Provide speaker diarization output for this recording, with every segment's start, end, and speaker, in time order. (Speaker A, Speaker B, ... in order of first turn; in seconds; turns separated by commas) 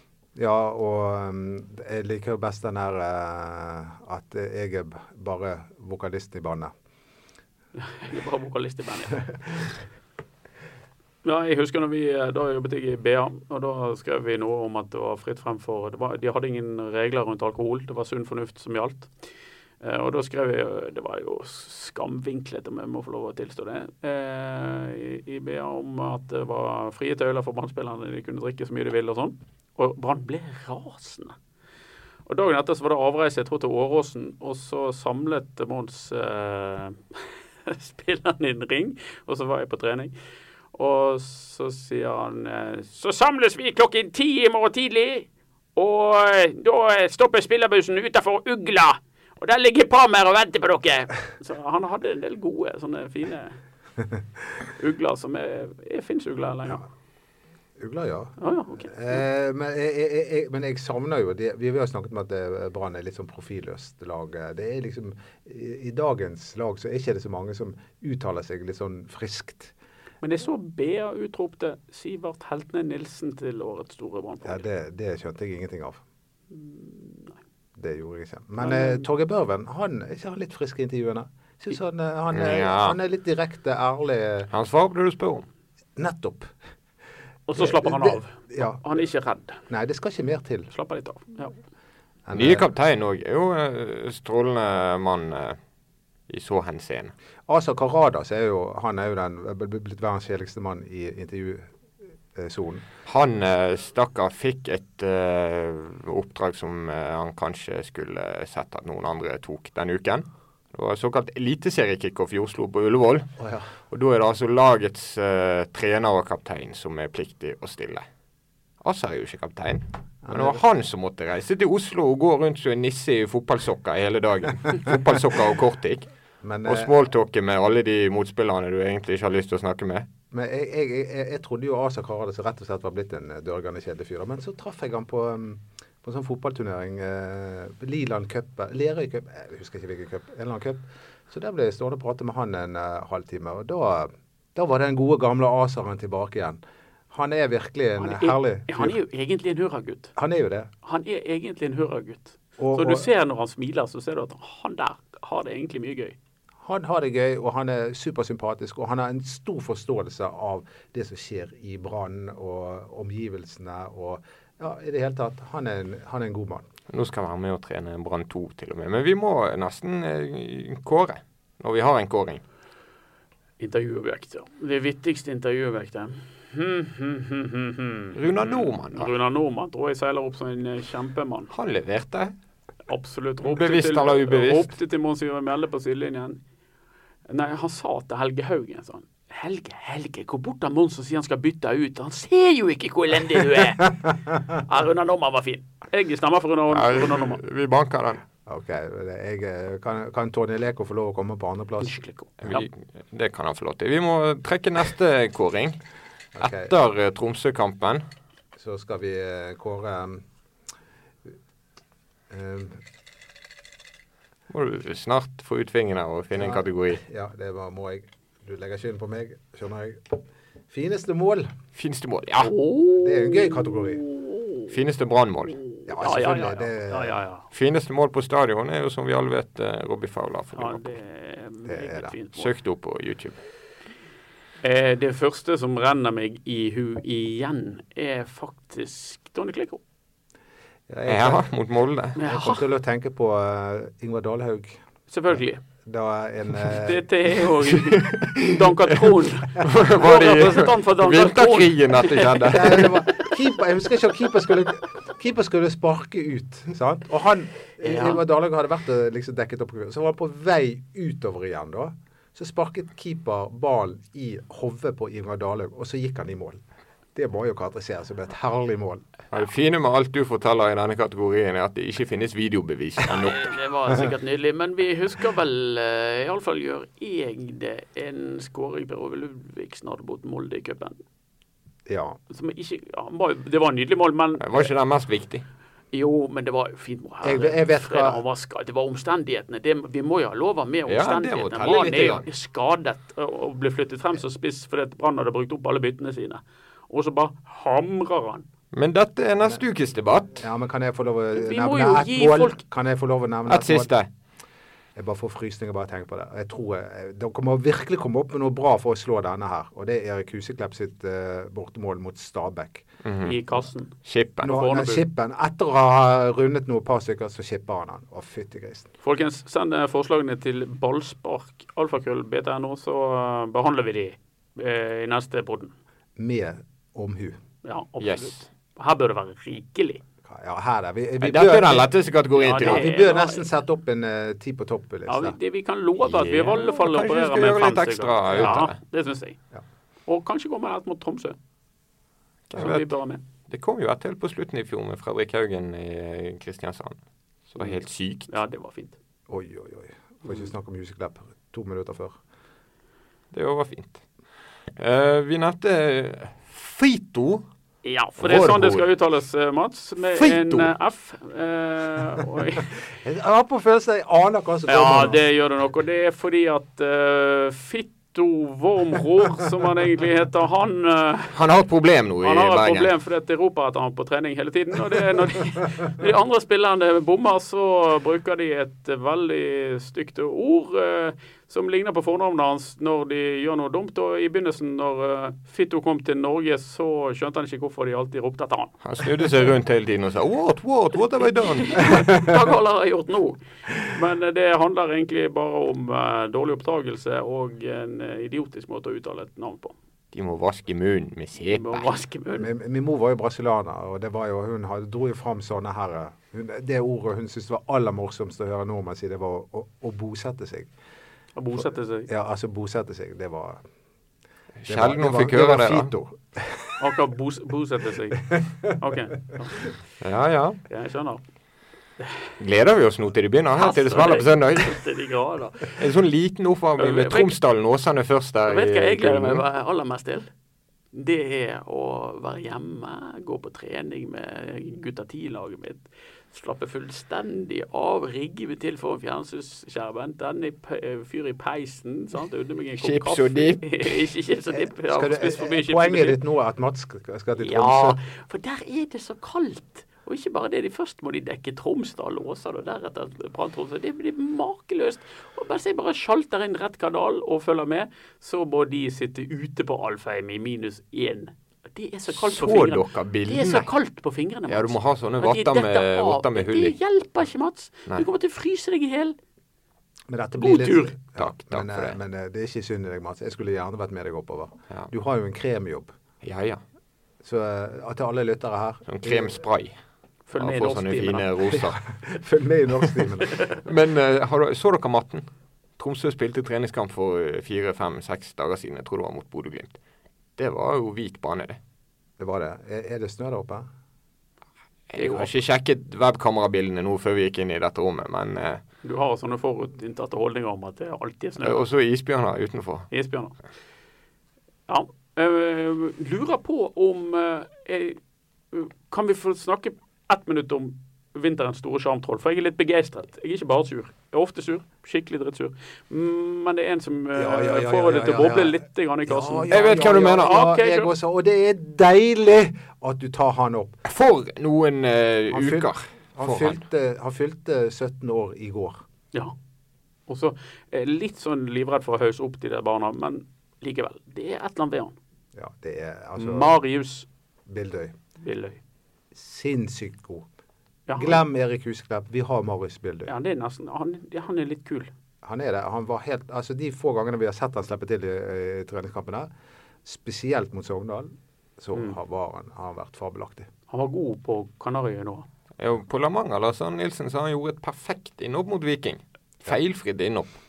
Speaker A: 0.3-6.7, Speaker B: 7.8-9.2, Speaker B: 11.2-19.1, Speaker B: 19.8-31.3, Speaker B: 32.2-40.1, Speaker B: 40.7-53.6, Speaker B: 54.7-56.8, Speaker A: 57.8-69.7, Speaker B: 58.4-59.2, Speaker B: 70.2-74.6, Speaker A: 74.4-76.0, Speaker B: 76.5-77.4, Speaker A: 77.8-84.5, Speaker B: 78.6-79.0, Speaker C: 82.3-83.0, Speaker C: 84.5-85.4, Speaker A: 86.0-86.5, Speaker B: 87.5-89.6, Speaker A: 87.5-88.8, Speaker A: 89.7-90.7, Speaker B: 90.7-91.5, Speaker A: 92.2-92.6, Speaker C: 92.3-95.6, Speaker C: 96.3-97.1, Speaker A: 97.5-101.7, Speaker A: 102.3-102.8, Speaker C: 103.0-113.3, Speaker A: 113.4-113.7, Speaker C: 113.9-118.0, Speaker C: 118.8-126.1, Speaker A: 120.2-120.6, Speaker A: 126.4-126.9, Speaker C: 126.6-130.1, Speaker A: 130.3-146.6, Speaker A: 147.1-149.0, Speaker B: 148.0-150.1, Speaker A: 150.2-150.7, Speaker B: 150.8-156.2, Speaker A: 152.6-153.1, Speaker A: 156.6-166.7, Speaker C: 166.9-172.4, Speaker B: 173.6-181.5, Speaker C: 178.1-179.1, Speaker C: 181.5-182.3, Speaker B: 182.9-186.4, Speaker C: 183.4-184.7, Speaker B: 187.3-197.4, Speaker C: 196.7-198.2, Speaker A: 198.4-202.0, Speaker B: 201.8-202.7, Speaker C: 202.4-205.8, Speaker A: 206.3-206.7, Speaker C: 206.4-208.0, Speaker A: 208.6-210.2, Speaker A: 212.3-212.8, Speaker C: 214.5-217.0, Speaker A: 216.4-221.5, Speaker C: 221.7-222.5, Speaker B: 222.4-224.7, Speaker A: 222.9-224.0, Speaker C: 224.7-225.6, Speaker B: 225.8-227.5, Speaker A: 225.9-227.2, Speaker C: 227.5-230.9, Speaker B: 230.5-232.5, Speaker A: 231.7-232.1, Speaker C: 232.3-233.4, Speaker B: 234.6-239.8, Speaker A: 240.9-241.5, Speaker C: 241.1-242.2, Speaker B: 242.2-242.6, Speaker A: 242.2-244.8, Speaker B: 245.1-245.6, Speaker A: 245.8-247.0, Speaker B: 246.6-252.9, Speaker C: 247.7-252.9, Speaker A: 252.5-266.6, Speaker B: 257.8-258.2, Speaker A: 267.1-269.0, Speaker C: 269.3-273.6, Speaker B: 273.1-281.0, Speaker A: 281.9-282.2, Speaker B: 282.3-284.7, Speaker C: 284.4-285.4, Speaker B: 285.9-298.5, Speaker A: 287.2-288.2, Speaker C: 290.9-292.3, Speaker C: 298.7-300.4, Speaker A: 300.3-303.9, Speaker B: 301.3-302.6, Speaker C: 303.5-304.1, Speaker A: 304.9-312.9, Speaker C: 313.0-313.4, Speaker B: 313.2-313.9, Speaker C: 314.0-314.7, Speaker A: 314.4-318.9, Speaker B: 314.4-315.0, Speaker B: 319.0-325.7, Speaker A: 326.2-327.4, Speaker B: 327.6-330.0, Speaker C: 328.0-328.4, Speaker A: 330.2-331.9, Speaker C: 331.2-332.9, Speaker B: 332.4-333.4, Speaker A: 332.6-335.4, Speaker B: 335.1-339.4, Speaker C: 336.0-338.8, Speaker B: 340.1-341.4, Speaker C: 342.5-342.9, Speaker B: 342.5-343.2, Speaker C: 343.5-347.0, Speaker C: 347.5-348.3, Speaker B: 348.3-349.0, Speaker A: 349.3-352.2, Speaker C: 353.3-354.0, Speaker C: 354.8-357.4, Speaker B: 357.8-362.8, Speaker C: 358.2-358.9, Speaker C: 360.0-360.7, Speaker A: 363.0-365.2, Speaker B: 364.7-371.4, Speaker C: 371.3-372.9, Speaker B: 372.2-389.4, Speaker C: 388.8-392.0, Speaker B: 391.4-399.7, Speaker A: 391.9-392.4, Speaker C: 400.1-401.9, Speaker B: 401.5-402.5, Speaker A: 402.3-410.7, Speaker B: 411.4-412.1, Speaker A: 411.6-413.6, Speaker C: 414.6-415.9, Speaker A: 414.7-416.9, Speaker B: 416.8-419.7, Speaker A: 418.3-418.8, Speaker C: 420.0-420.6, Speaker B: 420.7-421.2, Speaker B: 422.0-422.3, Speaker C: 422.4-424.8, Speaker B: 423.6-425.9, Speaker C: 425.7-429.4, Speaker B: 426.8-427.4, Speaker B: 428.5-430.3, Speaker B: 430.9-446.2, Speaker C: 442.8-444.0, Speaker A: 444.5-448.0, Speaker B: 447.4-469.2, Speaker C: 462.1-463.7, Speaker C: 464.5-466.7, Speaker A: 470.1-475.9, Speaker B: 470.4-470.9, Speaker C: 471.2-472.0, Speaker C: 476.2-476.6, Speaker A: 477.2-479.4, Speaker C: 478.9-479.8, Speaker B: 480.3-481.6, Speaker C: 480.4-481.9, Speaker A: 482.0-483.4, Speaker B: 483.3-483.6, Speaker C: 483.6-489.8, Speaker C: 490.4-491.6, Speaker A: 492.2-493.7, Speaker C: 494.9-498.6, Speaker B: 494.9-495.3, Speaker B: 498.8-501.6, Speaker C: 501.4-502.9, Speaker B: 502.9-503.3, Speaker B: 504.7-508.0, Speaker B: 508.5-520.9, Speaker A: 517.1-523.8, Speaker C: 519.5-520.5, Speaker C: 523.8-526.6, Speaker A: 525.3-528.8, Speaker B: 530.1-534.9, Speaker A: 535.3-536.5, Speaker B: 536.2-537.1, Speaker A: 537.5-538.0, Speaker B: 538.2-538.6, Speaker A: 539.1-540.2, Speaker B: 540.9-541.2, Speaker A: 541.0-543.1, Speaker B: 543.1-544.9, Speaker A: 545.2-549.3, Speaker A: 549.8-553.5, Speaker B: 553.7-555.3, Speaker C: 555.6-560.4